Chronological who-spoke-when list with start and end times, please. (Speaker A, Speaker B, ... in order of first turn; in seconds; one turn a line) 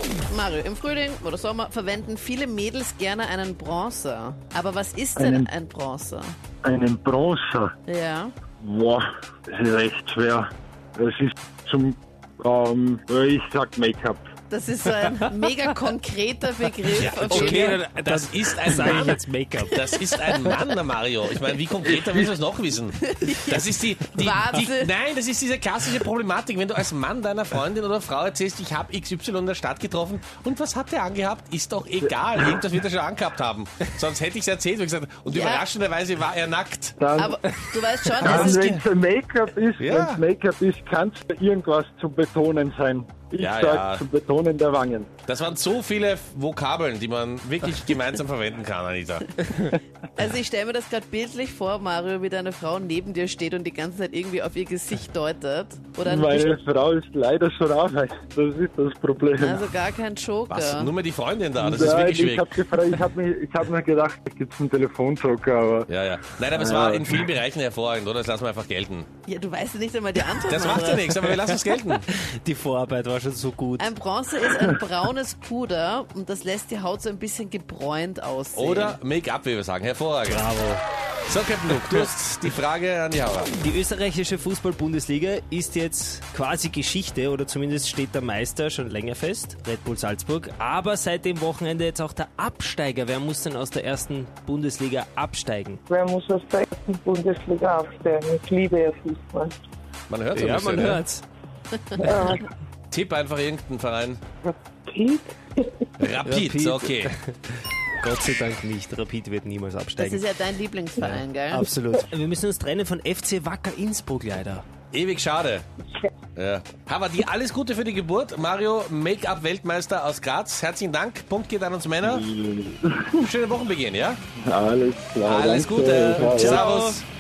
Speaker A: 0.3-6.3
Speaker B: 5.2-5.5
Speaker B: 6.6-7.7
Speaker A: 7.9-8.3
Speaker B: 8.6-14.2
Speaker A: 14.5-17.8
Speaker C: 17.0-19.2
Speaker D: 17.1-19.9
Speaker C: 19.7-37.0
Speaker A: 20.3-20.6
Speaker A: 23.0-24.9
Speaker B: 32.0-32.4
Speaker A: 35.3-35.7
Speaker B: 37.0-37.4
Speaker A: 37.2-38.8
Speaker B: 38.2-45.1
Speaker C: 38.2-38.8
Speaker C: 39.8-40.2
Speaker C: 43.4-44.0
Speaker C: 45.3-49.3
Speaker A: 50.2-56.5
Speaker B: 56.0-59.7
Speaker A: 59.4-60.9
Speaker C: 60.5-62.5
Speaker B: 61.6-65.9
Speaker C: 65.9-69.1
Speaker B: 66.5-67.2
Speaker A: 69.3-71.2
Speaker C: 70.5-72.1
Speaker D: 71.3-73.9
Speaker A: 73.8-79.0
Speaker C: 78.5-80.5
Speaker D: 80.3-80.8
Speaker C: 81.3-83.5
Speaker D: 81.7-82.0
Speaker D: 83.5-95.8
Speaker E: 95.9-99.6
Speaker C: 100.1-101.0
Speaker D: 100.3-101.2
Speaker A: 101.7-102.4
Speaker D: 102.0-102.3
Speaker E: 102.0-102.4
Speaker C: 102.9-104.2
Speaker E: 104.5-105.8
Speaker C: 106.0-107.1
Speaker D: 106.2-110.2
Speaker A: 110.0-111.7
Speaker D: 111.0-114.7
Speaker C: 114.9-115.7
Speaker C: 116.4-122.2
Speaker B: 122.0-123.2
Speaker C: 123.2-124.2
Speaker B: 124.5-126.6
Speaker C: 125.2-127.0
Speaker D: 126.2-127.0